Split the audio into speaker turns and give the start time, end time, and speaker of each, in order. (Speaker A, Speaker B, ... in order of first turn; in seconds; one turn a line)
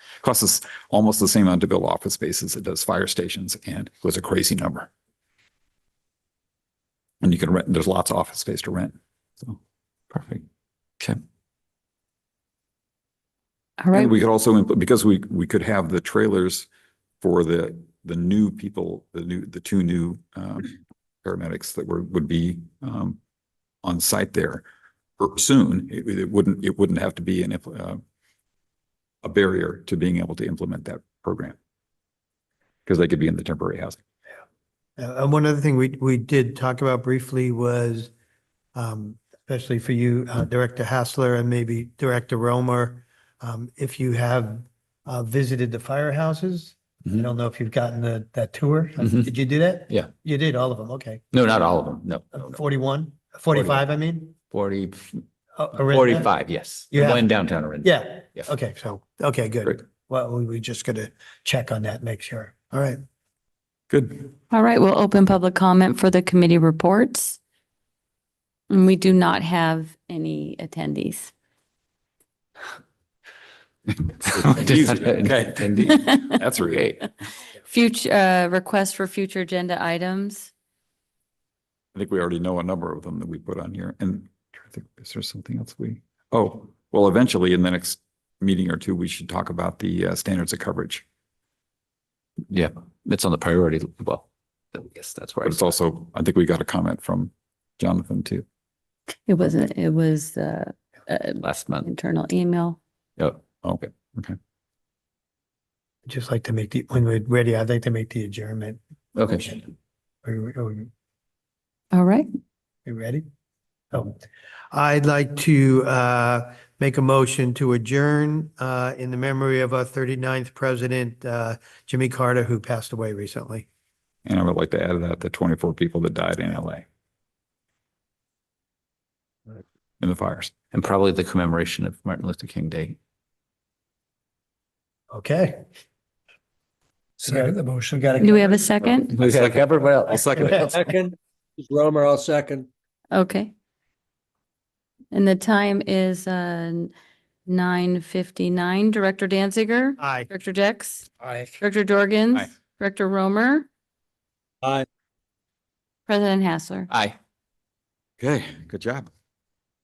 Speaker A: 0.2-4.9
Speaker A: 7.2-9.6
Speaker B: 13.8-14.1
Speaker A: 13.9-16.7
Speaker A: 17.2-20.7
Speaker A: 21.2-23.2
Speaker A: 23.8-24.6
Speaker A: 25.2-28.0
Speaker A: 29.2-31.6
Speaker A: 32.9-34.0
Speaker C: 35.0-38.1
Speaker C: 38.8-51.2
Speaker D: 51.3-52.5
Speaker C: 52.3-54.3
Speaker D: 54.5-55.2
Speaker C: 55.6-56.3
Speaker D: 55.9-58.5
Speaker C: 56.9-63.0
Speaker A: 63.9-64.3
Speaker B: 64.5-67.4
Speaker B: 68.7-71.3
Speaker D: 74.2-76.0
Speaker A: 74.3-77.1
Speaker B: 75.9-76.4
Speaker B: 77.6-80.5
Speaker A: 81.9-91.0
Speaker D: 92.5-95.6
Speaker A: 95.4-98.4
Speaker B: 99.2-102.8
Speaker D: 101.4-101.9
Speaker A: 103.6-104.4
Speaker C: 106.0-109.7
Speaker D: 109.2-109.6
Speaker C: 110.2-110.9
Speaker B: 111.9-112.3
Speaker C: 112.8-113.2
Speaker C: 114.7-123.7
Speaker A: 124.2-126.8
Speaker A: 130.0-130.5
Speaker D: 130.7-133.0
Speaker C: 135.1-135.6
Speaker C: 137.2-138.6
Speaker E: 137.2-137.5
Speaker B: 138.2-139.1
Speaker D: 138.9-140.8
Speaker A: 139.1-140.9
Speaker E: 140.5-142.7
Speaker B: 143.1-143.5
Speaker B: 145.1-146.9
Speaker B: 147.5-153.7
Speaker C: 150.0-150.3
Speaker B: 156.1-156.9
Speaker D: 156.9-157.2
Speaker A: 158.2-159.1